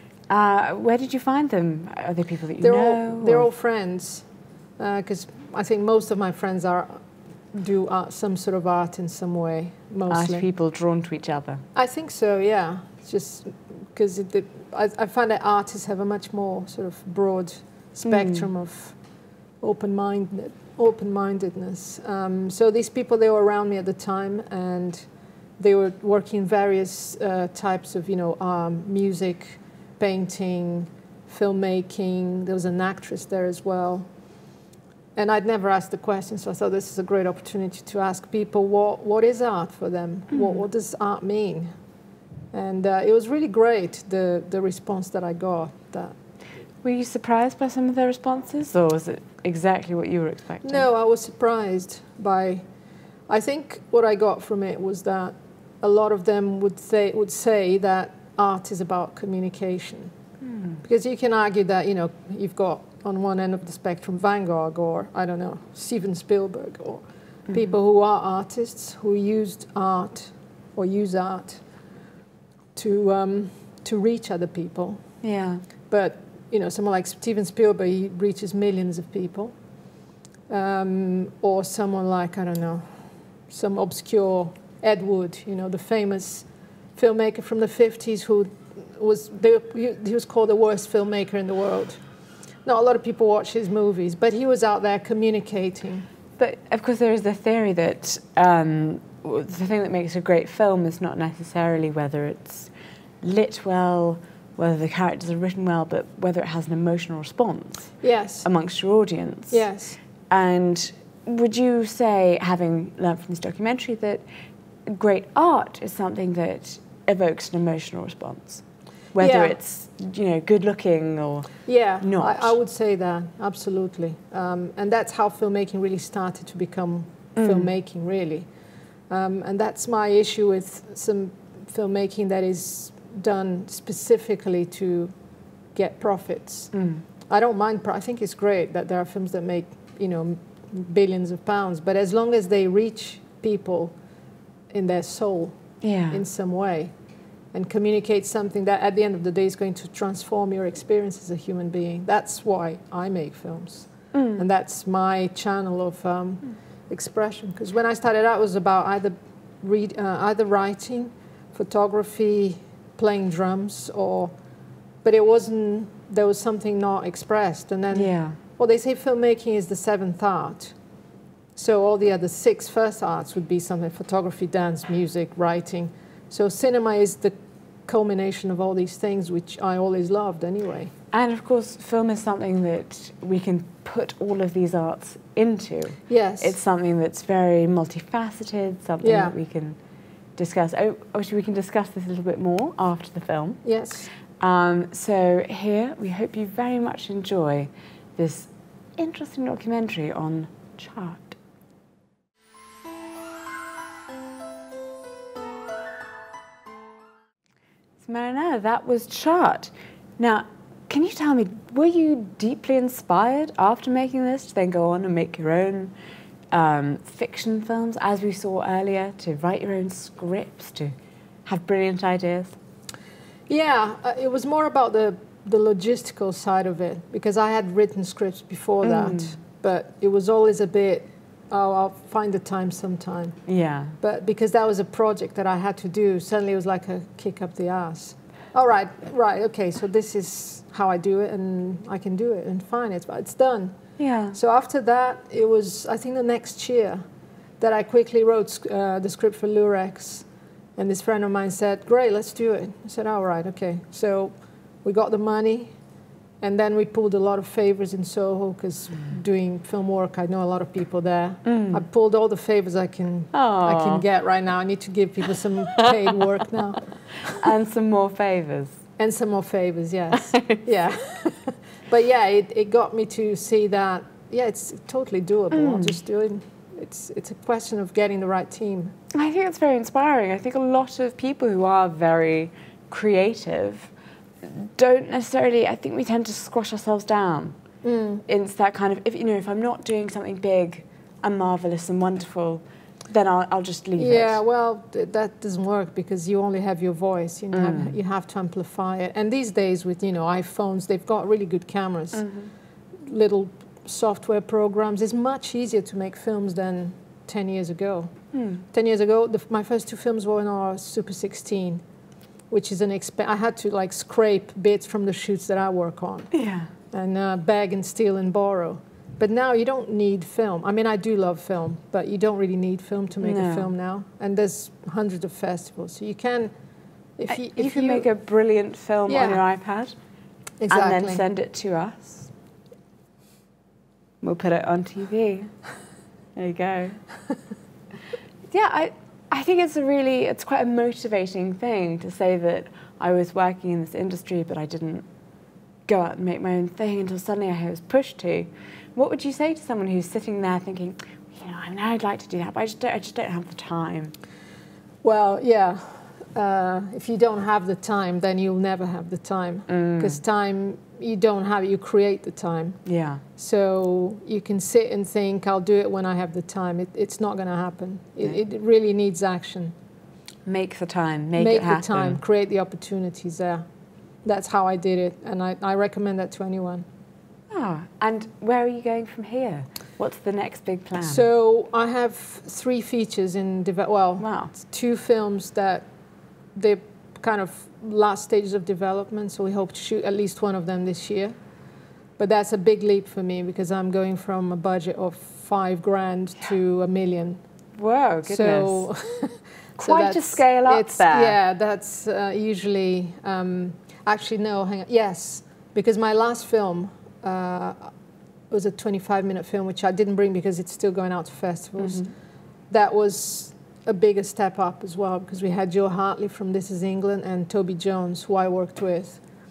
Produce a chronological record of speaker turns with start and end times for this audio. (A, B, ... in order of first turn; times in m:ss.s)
0:00.3-0:03.5 A
0:02.6-0:04.3 B
0:04.8-0:10.5 B
0:10.1-0:11.6 A
0:11.8-0:19.0 B
0:18.0-0:18.5 A
0:19.6-0:34.1 B
0:35.2-0:41.7 B
0:40.3-0:40.6 A
0:42.5-0:46.1 B
0:46.8-0:50.9 A
0:50.6-0:52.6 B
0:53.3-1:00.1 B
1:00.4-1:00.8 A
1:00.8-1:11.6 B
1:12.8-1:15.1 B
1:15.2-1:15.7 A
1:15.9-1:19.5 B
1:20.5-1:32.0 B
1:32.6-1:36.0 B
1:36.4-1:42.7 A
1:43.2-1:54.2 A
1:48.0-1:48.5 B
1:49.5-1:50.0 B
1:54.9-2:02.6 A
1:59.2-1:59.6 B
2:01.6-2:08.5 B
2:07.4-2:07.7 A
2:09.1-2:15.1 B
2:15.7-2:16.7 B
2:16.7-2:17.0 A
2:17.3-2:24.0 B
2:24.7-2:26.9 B
2:25.8-2:26.2 A
2:27.5-2:44.3 B
2:34.1-2:34.4 A
2:45.0-2:50.7 B
2:47.9-2:48.4 A
2:51.6-2:57.4 B
2:57.9-3:00.9 B
3:01.1-3:09.8 A
3:06.1-3:06.6 B
3:09.0-3:09.4 B
3:10.4-3:13.6 A
3:13.6-3:14.1 B
3:14.3-3:21.4 A
3:28.0-3:35.9 A
3:36.5-3:42.6 A
3:43.5-3:53.4 B
3:48.8-3:49.4 A
3:53.5-3:54.0 A
3:54.0-4:03.8 B
4:04.0-4:04.4 A
4:04.3-4:07.0 B
4:07.6-4:10.3 B
4:10.8-4:15.7 B
4:16.4-4:27.5 B
4:21.4-4:21.8 A
4:23.3-4:24.0 A
4:25.8-4:26.2 A
4:27.4-4:28.8 A
4:29.0-4:38.9 B
4:35.5-4:36.0 A
4:39.1-4:47.6 A
4:47.8-4:48.2 B
4:48.2-4:54.4 A
4:54.0-5:02.2 B
4:57.5-4:58.0 A
5:02.1-5:02.5 A
5:03.0-5:11.8 B
5:08.3-5:08.6 A
5:12.5-5:16.3 B
5:16.3-5:16.7 A
5:16.9-5:26.5 B
5:23.2-5:23.7 A
5:27.2-5:28.1 B
5:27.3-5:30.0 A
5:29.1-5:29.4 B
5:30.6-5:31.2 B
5:30.7-5:32.3 A
5:34.2-5:35.6 A
5:36.4-5:37.0 A
5:38.5-5:45.0 A
5:45.9-5:54.1 A
5:55.0-6:02.8 B
5:59.7-6:00.2 A
6:02.8-6:03.2 A
6:03.4-6:09.7 B
6:10.4-6:12.2 A
6:11.3-6:13.6 B
6:14.2-6:16.8 B
6:17.5-6:21.2 A
6:21.0-6:25.8 B
6:24.2-6:24.5 A
6:26.5-6:31.4 B
6:32.2-6:37.4 B
6:37.8-6:38.9 A
6:38.2-6:47.9 B
6:39.8-6:41.4 A
6:48.5-6:52.1 B
6:51.8-6:52.1 A
6:52.7-6:59.2 B